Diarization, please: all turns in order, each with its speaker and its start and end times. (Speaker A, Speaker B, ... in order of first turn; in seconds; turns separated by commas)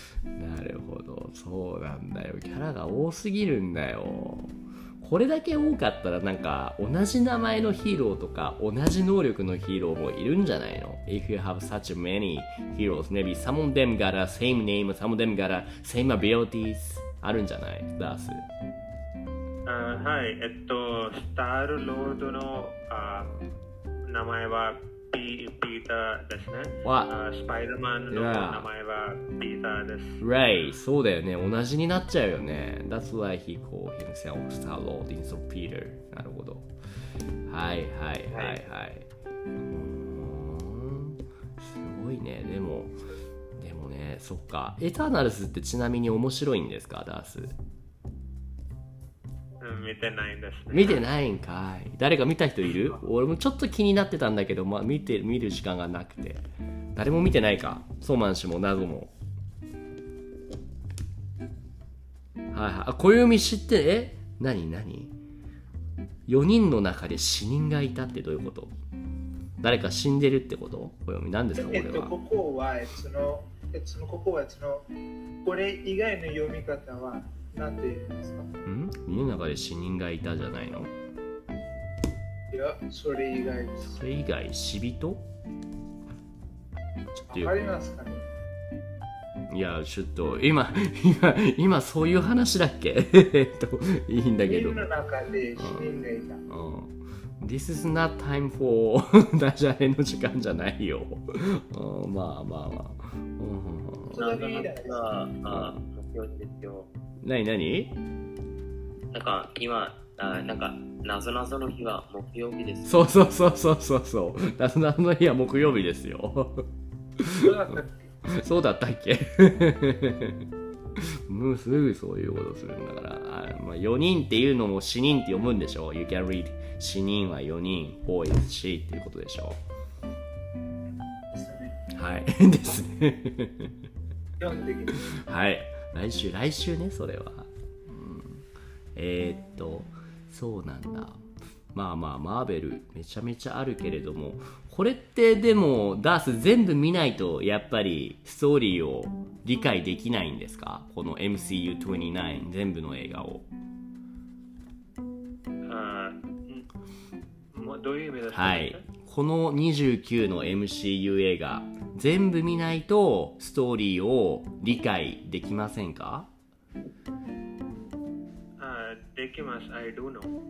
Speaker A: 0.4-18.5, Speaker B: 19.7-23.3, Speaker B: 24.1-30.2, Speaker A: 26.8-27.1, Speaker A: 28.1-28.7, Speaker A: 30.2-36.7, Speaker A: 37.5-39.1, Speaker C: 38.3-38.6, Speaker A: 39.6-43.0, Speaker A: 43.6-47.5, Speaker B: 49.6-51.0, Speaker A: 50.7-56.4, Speaker A: 57.0-59.1, Speaker A: 62.5-65.2, Speaker A: 66.3-68.8, Speaker A: 69.6-72.1, Speaker D: 71.6-74.8, Speaker D: 75.4-78.5, Speaker A: 78.7-80.9, Speaker D: 82.5-84.0, Speaker A: 83.8-85.2, Speaker A: 87.2-87.5, Speaker D: 87.3-88.3, Speaker A: 89.5-94.9, Speaker D: 94.5-96.4, Speaker A: 95.6-95.9, Speaker A: 96.5-104.2, Speaker C: 104.1-106.9, Speaker D: 104.1-105.1, Speaker A: 105.5-105.7, Speaker A: 107.2-107.9, Speaker C: 109.1-113.1, Speaker A: 112.9-116.7, Speaker A: 117.2-120.4, Speaker D: 117.4-117.9, Speaker A: 121.0-129.6, Speaker D: 131.3-131.8, Speaker A: 131.9-133.7, Speaker D: 134.4-135.1, Speaker A: 134.9-153.5, Speaker B: 155.7-156.7, Speaker B: 157.5-158.8, Speaker A: 158.3-166.3, Speaker B: 168.6-170.3